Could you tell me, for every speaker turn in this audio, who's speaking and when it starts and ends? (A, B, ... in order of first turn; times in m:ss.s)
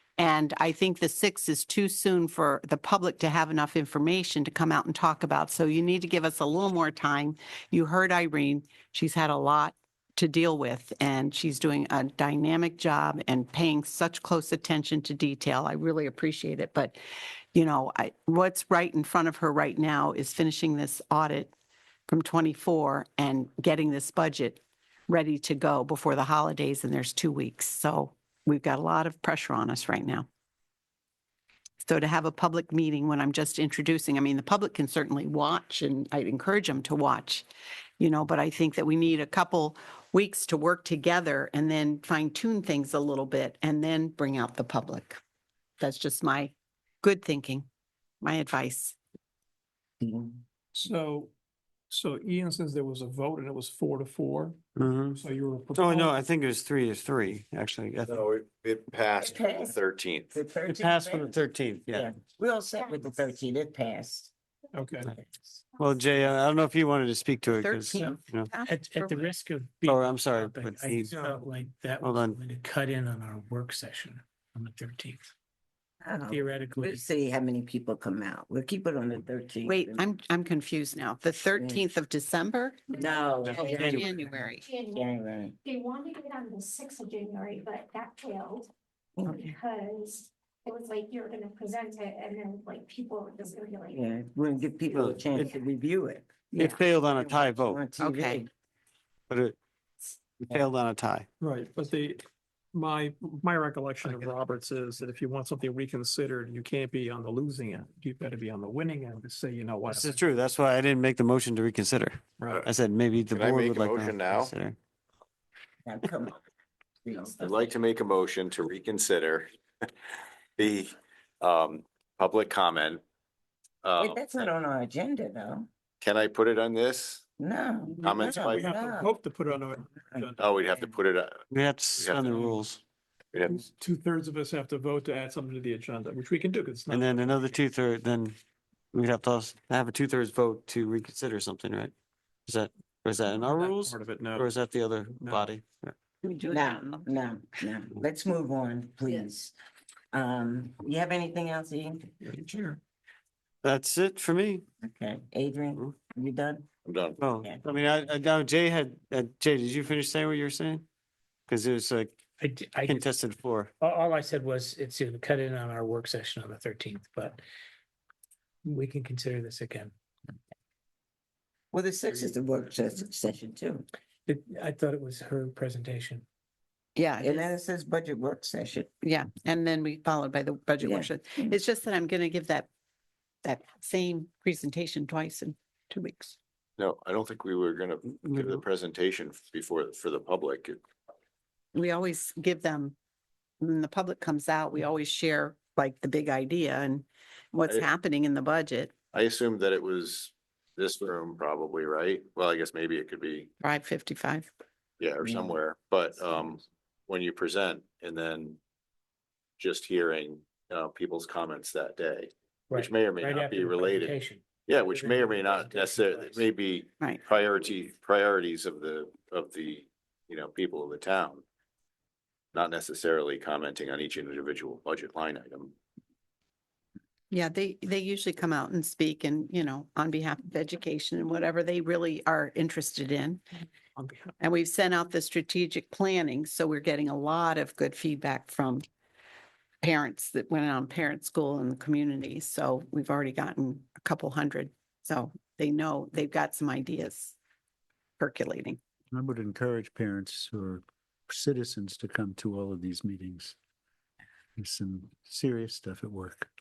0:00.2-0:17.0 A
0:17.5-0:21.5 A
0:22.1-0:30.3 A
0:31.8-0:37.4 A
0:38.0-0:45.2 A
0:45.8-0:47.7 A
0:48.2-0:49.0 A
0:50.0-0:50.4 B
0:50.7-0:51.3 C
0:51.9-0:54.6 C
0:54.8-0:55.2 D
0:55.1-0:56.2 C
0:55.7-0:58.2 D
0:58.0-1:00.4 E
0:59.2-0:59.8 B
1:00.3-1:04.3 B
1:00.7-1:02.1 D
1:02.8-1:03.1 F
1:04.7-1:05.1 C
1:05.8-1:08.5 D
1:07.4-1:09.3 A
1:07.9-1:15.3 G
1:09.8-1:11.1 D
1:12.0-1:12.4 D
1:16.0-1:20.1 B
1:16.3-1:17.0 G
1:19.6-1:22.9 A
1:21.6-1:21.8 B
1:22.9-1:24.1 F
1:23.0-1:24.1 B
1:23.5-1:24.6 A
1:24.6-1:25.1 F
1:24.9-1:25.6 B
1:25.6-1:28.7 F
1:29.3-1:29.5 A
1:29.3-1:34.1 F
1:33.9-1:36.4 B
1:34.9-1:35.2 D
1:36.5-1:36.8 A
1:36.6-1:37.8 D
1:37.0-1:38.5 B
1:38.0-1:38.4 A
1:39.3-1:39.6 D
1:40.4-1:41.3 D
1:41.4-1:50.2 C
1:49.9-1:54.8 D
1:53.3-1:54.5 E
1:55.8-1:56.4 B
1:57.0-1:57.7 B
1:57.3-1:59.9 E
2:00.6-2:03.0 E
2:03.8-2:04.2 E
2:04.0-2:05.7 B
2:06.0-2:07.2 E
2:07.4-2:09.1 B
2:08.0-2:08.7 E
2:08.4-2:10.5 C
2:10.4-2:11.4 E
2:11.5-2:12.8 D
2:12.0-2:12.3 E
2:13.3-2:13.6 E
2:13.4-2:17.6 C
2:16.9-2:18.4 D
2:18.9-2:21.9 D
2:22.4-2:25.9 D
2:23.3-2:24.5 C
2:25.2-2:25.5 C
2:26.2-2:27.2 A
2:26.5-2:29.5 B
2:30.1-2:32.1 B
2:32.2-2:32.8 C
2:33.6-2:34.6 D
2:34.8-2:36.7 B
2:36.8-2:37.2 E
2:37.2-2:40.8 D
2:41.5-2:42.1 D
2:42.4-2:43.1 G
2:42.8-2:43.7 D
2:43.8-2:47.4 G
2:48.6-2:49.9 G
2:51.7-2:53.8 B
2:54.3-2:56.2 G
2:57.0-2:57.5 A
2:57.2-2:58.9 B
2:59.0-3:02.7 A
3:00.8-3:01.6 B
3:03.4-3:06.4 A
3:06.8-3:10.8 E
3:08.2-3:08.6 D
3:11.7-3:12.9 A
3:13.6-3:18.9 A
3:19.1-3:23.5 E
3:23.6-3:24.5 A
3:25.0-3:28.6 E
3:25.2-3:25.6 B
3:29.6-3:41.4 E
3:32.7-3:36.5 G
3:42.5-3:45.7 E
3:47.3-3:53.4 A
3:54.4-3:58.8 A
3:59.8-4:07.4 A
4:08.2-4:08.8 A
4:09.1-4:13.5 H
4:14.6-4:16.4 H